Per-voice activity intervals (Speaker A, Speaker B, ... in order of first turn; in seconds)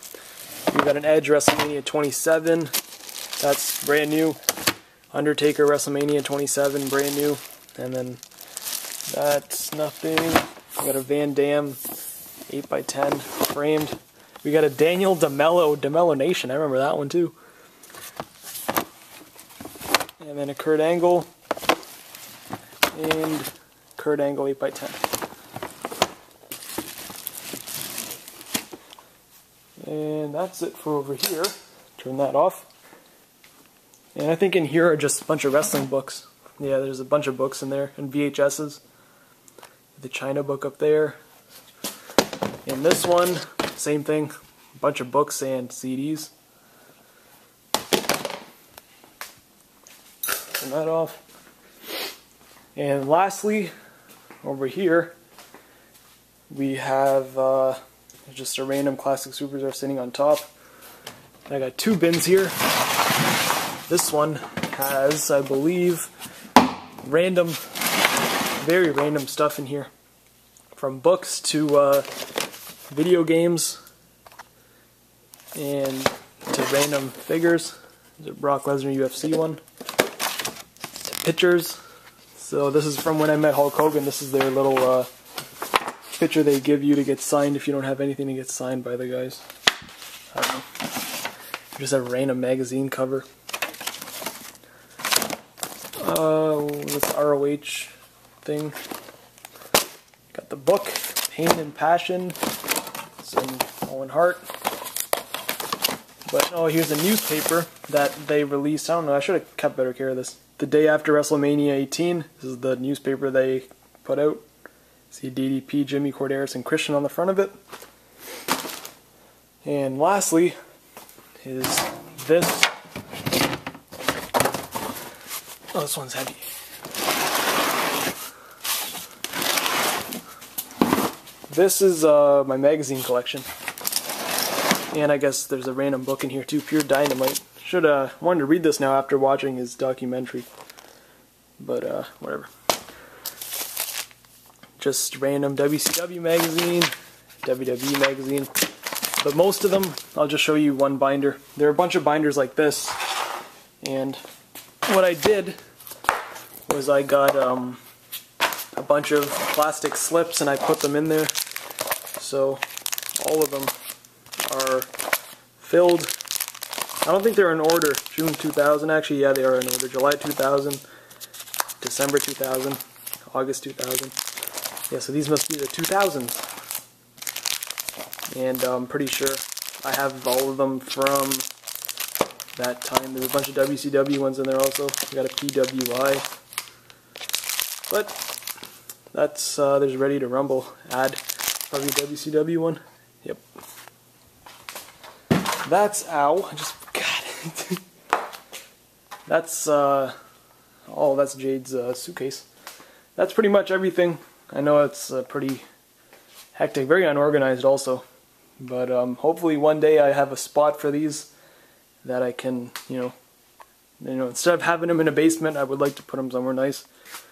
Speaker A: 0.7-2.7, 3.4-4.4, 5.1-8.2, 9.1-11.8, 12.5-17.4, 20.2-21.3, 22.9-25.0, 29.8-32.7, 34.1-38.8, 40.0-41.2, 42.6-46.3, 50.5-51.2, 52.7-53.7, 54.4-55.1, 56.5-60.5, 61.5-62.6, 63.9-66.1, 67.0-67.6, 68.6-69.9, 70.7-72.1, 72.9-73.8, 75.5-79.6, 81.0-81.8, 82.3-85.1, 86.1-89.4, 90.3-90.7, 91.7-93.2, 96.0-98.8, 100.3-102.4, 103.2-104.4, 106.3-114.4, 115.1-117.5, 119.6-120.5, 121.4-122.7, 125.7-126.4, 131.5-133.5, 134.9-140.5, 141.6-142.5, 144.8-146.9, 147.4-148.5, 149.2-153.0, 153.8-154.2, 154.8-155.6, 156.7-157.8, 158.7-161.3, 162.2-162.6, 163.2-163.7, 164.5-164.9, 165.6-166.1, 167.0-170.8, 171.8-174.1, 174.9-176.4, 178.3-181.5, 182.6-186.2, 187.9-188.2, 189.1-193.4, 195.6-197.8, 199.3-200.1, 200.9-202.5, 203.2-205.7, 206.5-208.0, 208.6-211.3, 212.0-213.1, 214.0-216.9